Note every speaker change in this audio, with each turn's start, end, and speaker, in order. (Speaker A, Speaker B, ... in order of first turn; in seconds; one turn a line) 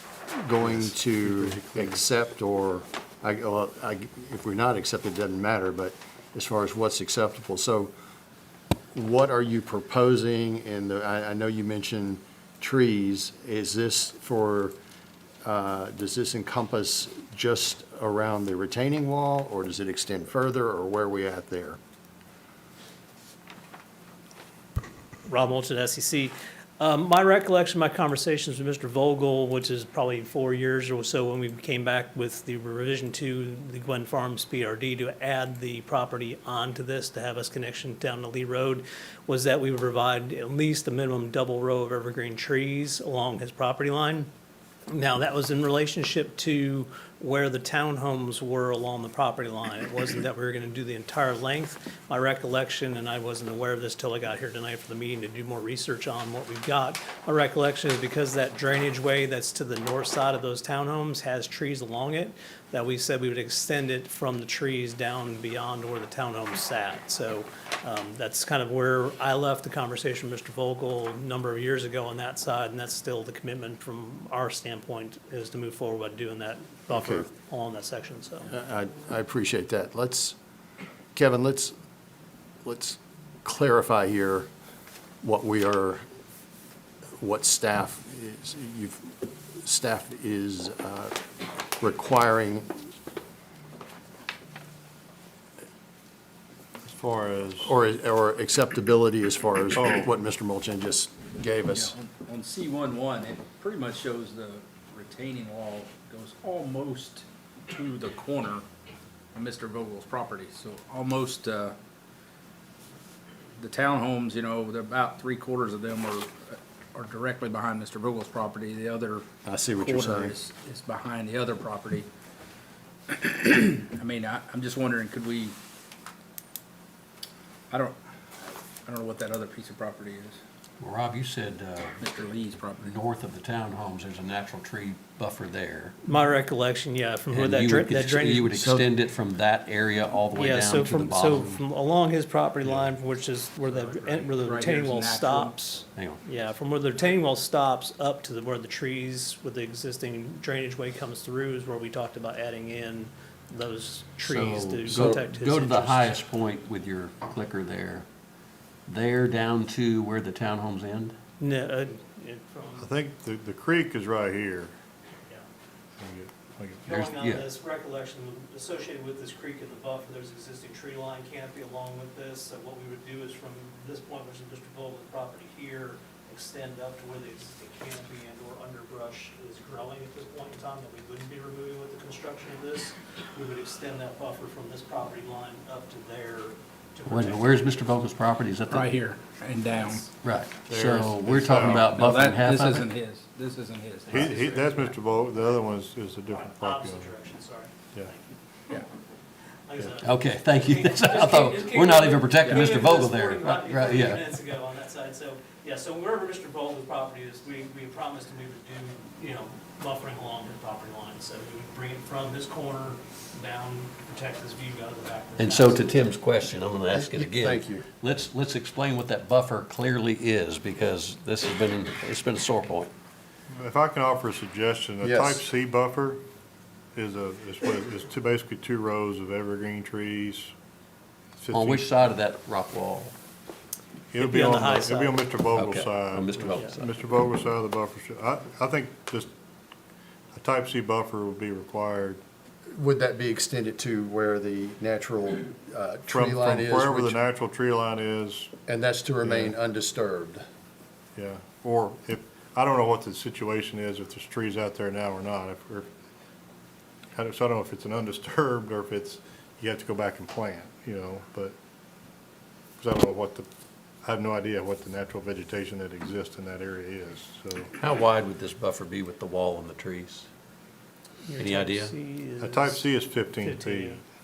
Speaker A: 0.3-7.9
Speaker B: 0.7-1.9
Speaker A: 8.9-14.8
Speaker A: 15.4-21.8
Speaker C: 25.3-44.3
Speaker C: 44.9-78.5
Speaker A: 76.9-77.2
Speaker A: 78.5-80.4
Speaker A: 81.2-81.8
Speaker A: 82.6-84.5
Speaker A: 85.2-86.0
Speaker A: 87.2-91.2
Speaker A: 91.8-92.8
Speaker B: 96.8-97.8
Speaker A: 97.6-101.9
Speaker B: 99.8-100.1
Speaker D: 101.7-108.7
Speaker D: 109.3-111.8
Speaker D: 113.6-122.1
Speaker A: 119.5-120.4
Speaker D: 123.1-125.5
Speaker D: 127.7-130.4
Speaker E: 130.8-132.0
Speaker D: 132.0-132.9
Speaker E: 132.8-136.0
Speaker C: 136.0-138.6
Speaker E: 137.3-141.6
Speaker A: 138.5-138.9
Speaker C: 140.3-156.2
Speaker D: 143.6-145.5
Speaker E: 145.9-146.2
Speaker E: 154.2-158.1
Speaker E: 158.9-161.2
Speaker C: 161.4-162.9
Speaker B: 162.8-164.8
Speaker B: 166.0-166.9
Speaker C: 166.8-188.0
Speaker E: 166.9-167.5
Speaker E: 187.1-188.9
Speaker D: 188.7-190.1
Speaker C: 189.6-190.1
Speaker E: 190.2-192.9
Speaker B: 190.7-191.9
Speaker D: 191.8-194.9
Speaker C: 194.1-194.9
Speaker B: 194.1-197.1
Speaker C: 196.3-198.8
Speaker C: 199.7-215.9
Speaker E: 200.0-204.2
Speaker D: 202.4-202.7
Speaker E: 215.4-222.9
Speaker A: 216.9-217.8
Speaker B: 223.5-226.2
Speaker A: 225.0-225.5
Speaker B: 226.9-230.5
Speaker B: 231.4-231.9
Speaker E: 231.5-233.1
Speaker B: 234.1-239.3
Speaker C: 234.2-235.2
Speaker E: 235.5-236.9
Speaker B: 240.3-242.2
Speaker A: 242.7-247.2
Speaker B: 246.1-248.5
Speaker A: 248.7-250.4
Speaker B: 249.2-249.6
Speaker B: 251.2-255.9
Speaker B: 257.1-261.6
Speaker B: 262.8-263.5
Speaker B: 264.0-267.7
Speaker E: 267.8-270.3
Speaker C: 271.2-272.8
Speaker E: 271.4-271.9
Speaker B: 272.4-274.0
Speaker C: 273.4-274.0